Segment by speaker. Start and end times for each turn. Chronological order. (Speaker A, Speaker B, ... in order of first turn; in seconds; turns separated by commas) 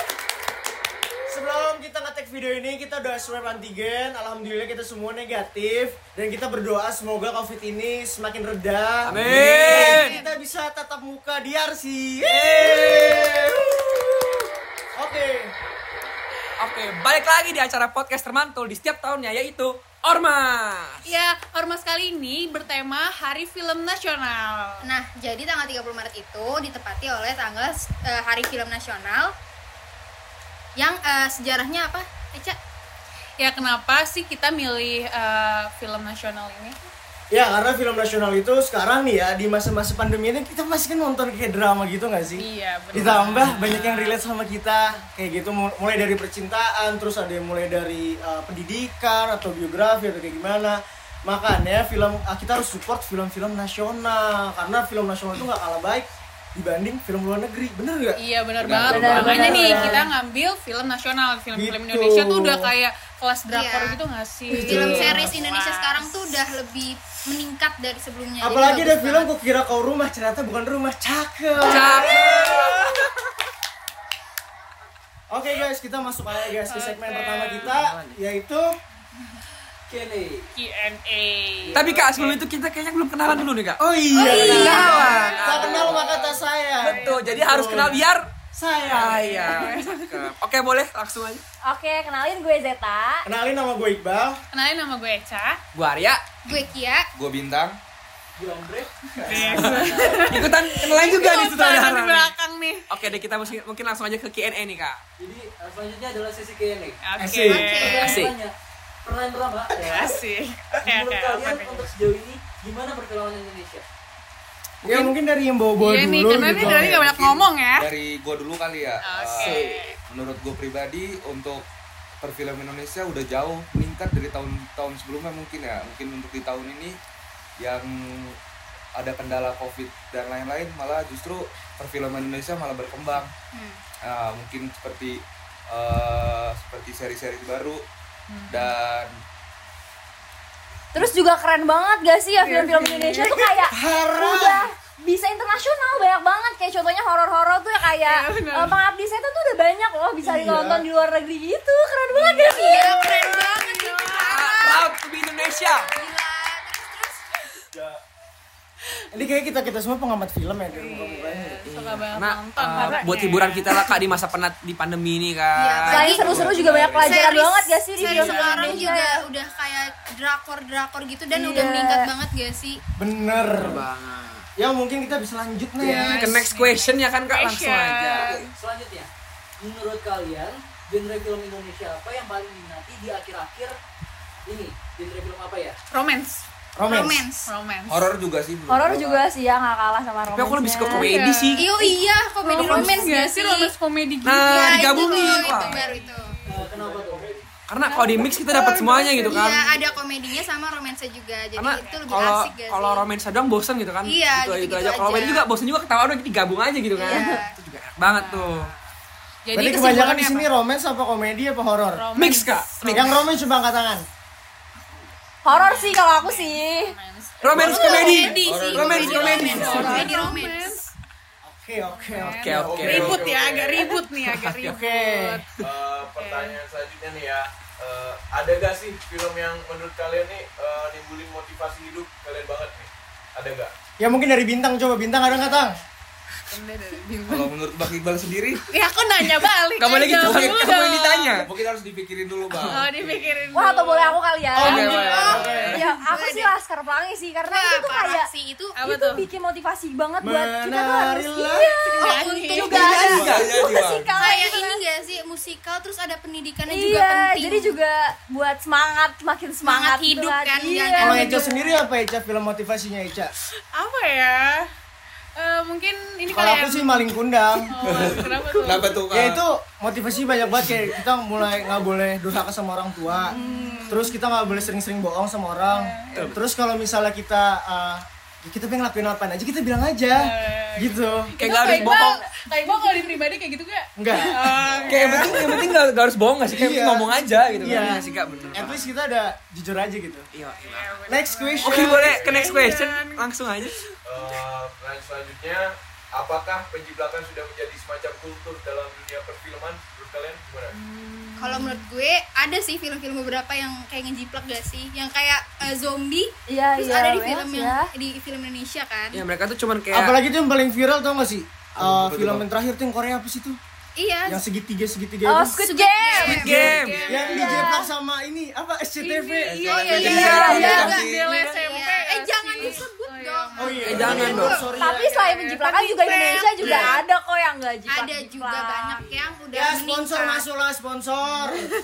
Speaker A: 1.3-13.6, Speaker B: 9.1-10.2, Speaker C: 9.2-9.5, Speaker D: 9.5-10.3, Speaker B: 12.2-13.6, Speaker A: 14.9-15.5, Speaker B: 16.6-21.0, Speaker E: 21.1-24.9, Speaker D: 24.8-29.3, Speaker D: 30.8-32.6, Speaker E: 33.4-36.8, Speaker A: 37.3-58.2, Speaker E: 42.4-44.2, Speaker E: 58.2-66.2, Speaker C: 58.6-59.7, Speaker F: 58.9-60.0, Speaker A: 58.9-60.0, Speaker A: 61.5-62.6, Speaker D: 63.5-64.0, Speaker A: 64.5-65.3, Speaker D: 64.6-69.3, Speaker A: 68.4-72.8, Speaker B: 71.6-72.9, Speaker A: 75.3-78.7, Speaker E: 76.7-77.8, Speaker G: 79.9-80.5, Speaker E: 80.6-81.8, Speaker G: 81.6-82.4, Speaker B: 81.7-88.3, Speaker A: 83.8-88.0, Speaker E: 84.2-86.1, Speaker D: 84.2-85.4, Speaker F: 84.3-84.9, Speaker E: 86.8-87.3, Speaker A: 88.5-89.4, Speaker B: 88.9-91.4, Speaker E: 88.9-90.3, Speaker F: 91.6-93.2, Speaker A: 93.2-94.4, Speaker E: 94.5-95.6, Speaker B: 95.7-96.2, Speaker D: 96.5-97.1, Speaker C: 97.2-97.8, Speaker G: 98.4-100.4, Speaker E: 99.2-102.9, Speaker A: 99.3-100.0, Speaker C: 99.3-99.6, Speaker B: 100.3-102.3, Speaker B: 102.9-105.0, Speaker G: 105.2-107.0, Speaker E: 107.0-108.3, Speaker A: 107.2-107.7, Speaker D: 107.5-108.2, Speaker G: 107.5-108.5, Speaker B: 108.0-108.3, Speaker G: 109.0-110.1, Speaker E: 109.8-111.9, Speaker G: 110.8-113.8, Speaker B: 114.8-115.1, Speaker A: 114.8-117.2, Speaker E: 115.8-117.9, Speaker C: 116.5-121.7, Speaker E: 119.0-120.0, Speaker B: 119.4-119.9, Speaker C: 122.2-127.0, Speaker C: 127.6-128.4, Speaker C: 128.9-133.3, Speaker D: 133.5-133.8, Speaker C: 134.0-137.8, Speaker E: 138.3-138.8, Speaker C: 138.5-139.2, Speaker F: 140.9-152.9, Speaker E: 142.4-143.4, Speaker A: 143.2-144.6, Speaker E: 148.0-148.8, Speaker A: 150.2-150.9, Speaker E: 152.4-154.8, Speaker D: 152.6-154.9, Speaker B: 154.2-155.9, Speaker D: 155.9-157.3, Speaker A: 159.1-161.6, Speaker E: 160.7-164.0, Speaker B: 161.7-166.3, Speaker F: 162.8-163.2, Speaker D: 165.6-172.8, Speaker F: 165.9-169.2, Speaker C: 166.2-167.2, Speaker E: 168.0-169.9, Speaker F: 171.3-172.1, Speaker A: 173.0-173.8, Speaker B: 173.4-174.5, Speaker A: 174.6-176.2, Speaker E: 175.8-178.5, Speaker B: 175.8-178.5, Speaker G: 178.3-179.1, Speaker G: 179.6-183.8, Speaker G: 184.5-185.8, Speaker E: 185.9-186.4, Speaker A: 186.8-187.2, Speaker D: 186.8-187.5, Speaker E: 187.5-188.1, Speaker C: 187.9-189.2, Speaker F: 188.7-191.1, Speaker B: 190.3-191.6, Speaker E: 190.9-191.7, Speaker D: 191.6-193.7, Speaker F: 192.4-193.1, Speaker E: 192.5-196.7, Speaker B: 194.2-195.9, Speaker D: 194.5-196.4, Speaker G: 196.5-197.4, Speaker B: 197.7-199.7, Speaker E: 197.9-198.2, Speaker F: 197.9-199.0, Speaker D: 198.2-203.1, Speaker B: 201.6-208.7, Speaker E: 201.7-202.1, Speaker D: 204.1-205.5, Speaker D: 207.0-207.5, Speaker F: 207.0-207.4, Speaker E: 208.0-208.8, Speaker E: 209.5-210.5, Speaker A: 209.5-212.1, Speaker E: 211.9-213.3, Speaker B: 212.2-213.2, Speaker A: 212.9-214.1, Speaker F: 215.4-216.9, Speaker E: 215.5-220.9, Speaker B: 217.4-220.2, Speaker D: 217.6-220.8, Speaker F: 218.0-218.3, Speaker C: 218.4-220.3, Speaker A: 221.4-222.8, Speaker E: 221.8-225.5, Speaker B: 222.3-223.2, Speaker H: 222.6-223.9, Speaker B: 224.1-224.8, Speaker A: 224.7-225.4, Speaker H: 225.6-233.7, Speaker E: 226.1-226.6, Speaker A: 234.0-235.8, Speaker E: 235.2-235.7, Speaker E: 236.5-237.5, Speaker C: 237.3-238.6, Speaker E: 238.7-241.4, Speaker B: 239.8-241.5, Speaker C: 240.2-240.6, Speaker C: 241.4-243.4, Speaker E: 242.5-245.9, Speaker F: 243.5-248.3, Speaker A: 244.6-245.8, Speaker B: 244.6-245.9, Speaker D: 244.9-246.5, Speaker D: 247.5-248.8, Speaker E: 248.8-249.2, Speaker F: 248.8-254.8, Speaker A: 250.2-251.7, Speaker E: 251.8-253.0, Speaker D: 252.0-253.3, Speaker B: 252.7-253.5, Speaker C: 252.8-254.2, Speaker A: 253.0-253.4, Speaker D: 254.2-257.8, Speaker F: 256.7-261.5, Speaker D: 259.6-261.5, Speaker A: 261.0-263.3, Speaker E: 263.7-264.7, Speaker E: 265.4-267.1, Speaker A: 266.3-268.2, Speaker E: 267.7-269.1, Speaker C: 267.8-269.4, Speaker A: 269.1-273.3, Speaker E: 273.1-274.0, Speaker F: 273.3-274.1, Speaker A: 273.9-281.3, Speaker E: 275.7-276.4, Speaker E: 280.2-285.8, Speaker B: 281.4-282.2, Speaker F: 281.6-283.1, Speaker A: 284.0-285.8, Speaker B: 284.9-288.9, Speaker A: 286.5-287.1, Speaker E: 287.4-288.8, Speaker A: 287.6-290.3, Speaker B: 290.3-291.0, Speaker E: 290.5-293.7, Speaker A: 291.1-292.0, Speaker B: 291.6-293.8, Speaker H: 292.0-292.5, Speaker H: 294.1-300.7, Speaker E: 300.7-301.8, Speaker D: 301.4-309.2, Speaker F: 306.5-307.9, Speaker B: 309.1-310.2, Speaker A: 309.9-313.6, Speaker C: 311.8-312.5, Speaker D: 314.0-314.4, Speaker A: 314.3-315.6, Speaker F: 315.2-316.6, Speaker D: 315.6-317.0, Speaker E: 316.1-317.8, Speaker B: 316.2-317.1, Speaker A: 317.1-319.8, Speaker F: 317.3-317.9, Speaker E: 319.0-326.9, Speaker C: 319.4-321.3, Speaker D: 319.7-324.7, Speaker B: 320.0-320.8, Speaker F: 320.1-320.9, Speaker A: 323.6-325.1, Speaker B: 323.9-324.6, Speaker F: 324.8-329.0, Speaker D: 326.0-327.0, Speaker A: 326.6-326.9, Speaker D: 327.9-330.4, Speaker A: 329.5-331.7